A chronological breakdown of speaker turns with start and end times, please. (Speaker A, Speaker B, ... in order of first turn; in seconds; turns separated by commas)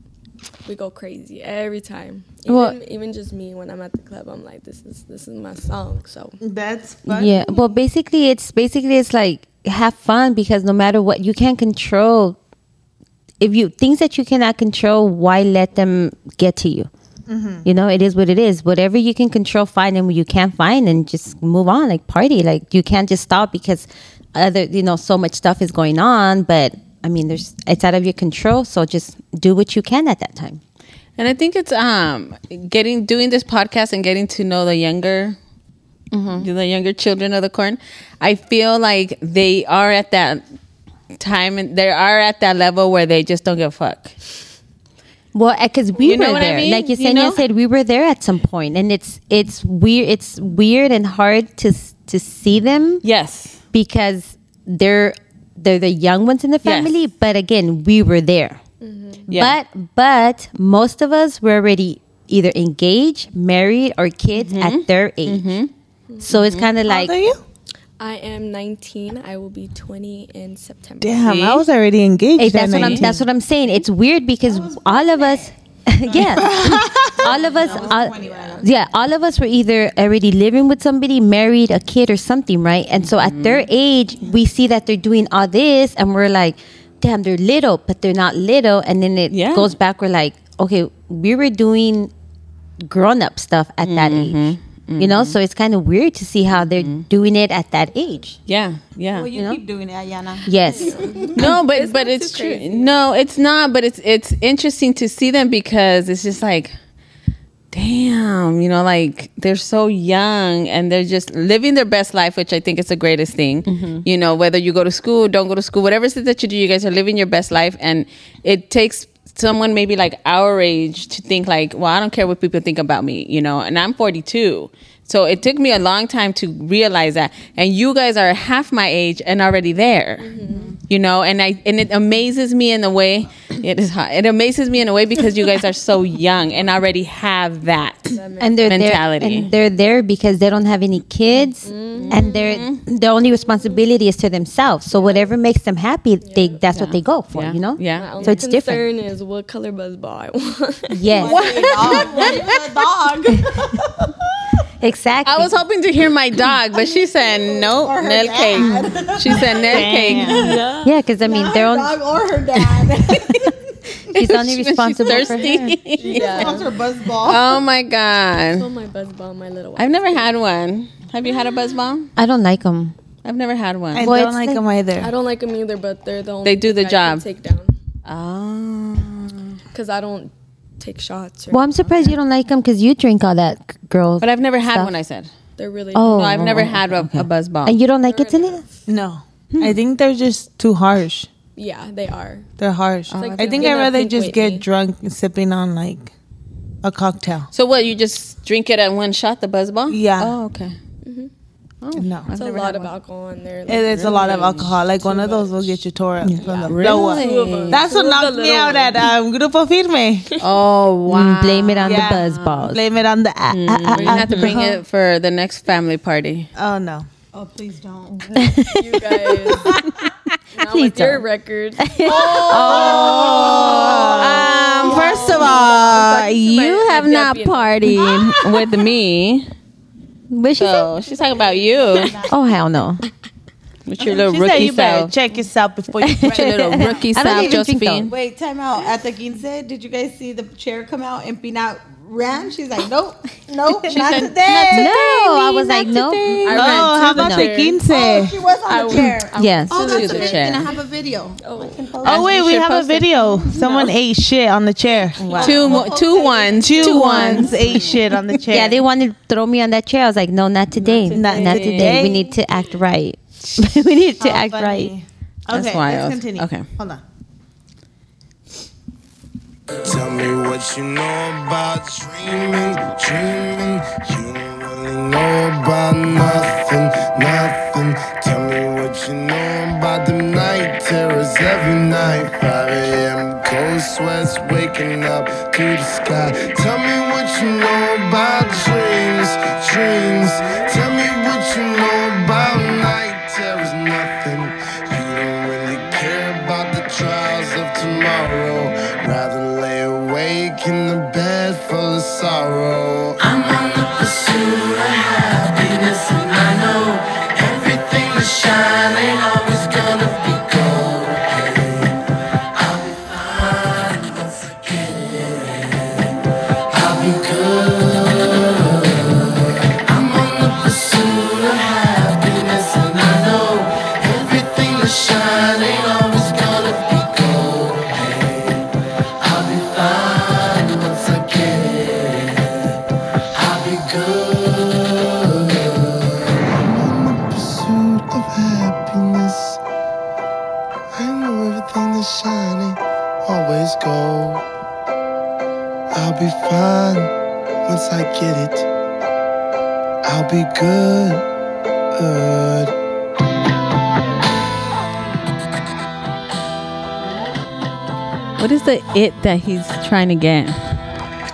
Speaker A: 0.7-6.4, Speaker B: 2.5-2.8, Speaker C: 6.4-7.3, Speaker B: 7.1-12.4, Speaker B: 13.4-16.9, Speaker C: 17.3-17.6, Speaker B: 17.6-30.6, Speaker D: 31.2-35.4, Speaker B: 36.1-36.4, Speaker D: 36.3-40.4, Speaker D: 41.1-44.1, Speaker B: 45.3-53.0, Speaker D: 46.0-47.4, Speaker D: 53.0-53.6, Speaker B: 53.7-58.6, Speaker D: 56.6-56.9, Speaker A: 58.8-59.3, Speaker D: 59.3-59.5, Speaker B: 59.3-65.6, Speaker D: 64.3-65.7, Speaker A: 66.1-66.3, Speaker B: 66.2-67.1, Speaker D: 66.4-66.7, Speaker C: 66.8-67.4, Speaker A: 68.0-71.6, Speaker C: 71.0-73.1, Speaker D: 71.3-71.6, Speaker B: 72.4-92.1, Speaker D: 72.6-73.2, Speaker E: 74.5-75.5, Speaker E: 76.0-78.7, Speaker C: 76.3-77.2, Speaker A: 77.4-78.7, Speaker D: 83.0-83.7, Speaker D: 89.3-89.7, Speaker B: 92.8-94.4, Speaker D: 93.8-95.4, Speaker B: 95.0-98.4, Speaker D: 96.6-97.0, Speaker D: 98.5-99.3, Speaker E: 99.1-101.5, Speaker B: 99.3-99.6, Speaker B: 100.4-101.1, Speaker A: 100.7-103.0, Speaker D: 101.3-106.7, Speaker D: 107.7-130.3, Speaker B: 113.7-114.0, Speaker A: 130.2-130.8, Speaker D: 130.9-138.2, Speaker A: 138.1-138.9, Speaker B: 138.4-148.8, Speaker D: 138.7-139.5, Speaker A: 141.6-142.5, Speaker D: 142.0-142.8, Speaker A: 144.9-145.3, Speaker A: 146.2-146.6, Speaker D: 146.7-148.4, Speaker A: 147.9-152.3, Speaker B: 150.9-152.1, Speaker E: 151.1-154.1, Speaker D: 151.3-152.4, Speaker B: 154.8-155.6, Speaker D: 155.2-160.4, Speaker E: 156.7-160.6, Speaker B: 158.6-158.9, Speaker C: 159.6-160.5, Speaker A: 160.3-161.0, Speaker B: 160.8-162.0, Speaker E: 161.2-163.6, Speaker B: 163.3-163.5, Speaker B: 164.1-165.8, Speaker D: 164.1-166.6, Speaker A: 165.1-166.7, Speaker E: 166.1-167.6, Speaker D: 167.2-168.7, Speaker A: 168.5-170.3, Speaker D: 169.8-172.1, Speaker B: 172.2-172.9, Speaker D: 173.2-174.1, Speaker C: 173.9-175.1, Speaker B: 174.0-174.6, Speaker A: 175.0-177.8, Speaker D: 176.4-177.2, Speaker D: 178.0-179.6, Speaker A: 179.7-182.2, Speaker B: 181.5-184.9, Speaker D: 184.2-185.3, Speaker A: 185.6-186.3, Speaker B: 185.9-188.6, Speaker D: 186.0-187.8, Speaker A: 188.0-188.8, Speaker C: 188.9-191.3, Speaker A: 191.6-192.5, Speaker C: 192.6-196.1, Speaker D: 193.1-193.8, Speaker A: 193.2-194.6, Speaker C: 196.8-197.5, Speaker D: 197.5-200.7, Speaker C: 199.9-200.3, Speaker A: 201.0-201.3, Speaker D: 201.8-202.9, Speaker C: 201.9-202.3, Speaker A: 202.3-205.8, Speaker C: 203.7-210.3, Speaker D: 203.9-204.7, Speaker A: 206.4-209.1, Speaker D: 206.7-207.8, Speaker D: 210.4-212.6, Speaker B: 211.1-212.8, Speaker C: 211.8-214.8, Speaker D: 213.5-216.5, Speaker B: 213.9-214.8, Speaker C: 216.5-217.1, Speaker E: 217.3-218.3, Speaker A: 218.3-219.8, Speaker B: 218.3-219.9, Speaker A: 220.5-224.0, Speaker B: 220.6-221.2, Speaker B: 221.8-224.4, Speaker D: 222.0-229.5, Speaker E: 222.2-226.1, Speaker C: 223.2-223.4, Speaker A: 224.8-228.4, Speaker B: 225.2-226.1, Speaker B: 227.8-228.4, Speaker B: 230.3-230.9, Speaker D: 230.6-232.1, Speaker A: 231.2-232.2, Speaker E: 231.4-232.3, Speaker B: 232.3-233.0, Speaker D: 233.9-235.1, Speaker C: 234.0-236.8, Speaker B: 236.0-238.1, Speaker D: 236.2-238.1, Speaker E: 238.1-246.5, Speaker D: 243.9-245.0, Speaker B: 244.5-247.5, Speaker A: 246.4-247.8, Speaker C: 246.5-248.4, Speaker E: 247.8-252.4, Speaker A: 248.7-250.7, Speaker B: 249.3-249.8, Speaker D: 249.8-250.6, Speaker A: 251.4-251.9, Speaker D: 252.0-253.1, Speaker C: 252.0-255.8, Speaker E: 253.2-253.9, Speaker E: 255.2-258.0, Speaker D: 255.3-257.9, Speaker C: 256.6-258.8, Speaker B: 258.5-264.9, Speaker A: 260.8-262.2, Speaker C: 261.1-262.3, Speaker D: 261.6-262.0, Speaker C: 264.2-267.0, Speaker D: 265.5-266.6, Speaker F: 269.8-311.6, Speaker F: 312.6-315.2, Speaker F: 316.7-318.6, Speaker F: 319.8-328.4, Speaker F: 329.2-332.3, Speaker F: 333.4-339.6, Speaker F: 340.9-344.4, Speaker F: 345.9-347.1, Speaker F: 347.6-348.7, Speaker F: 350.0-351.2, Speaker F: 351.9-352.7, Speaker D: 358.4-360.6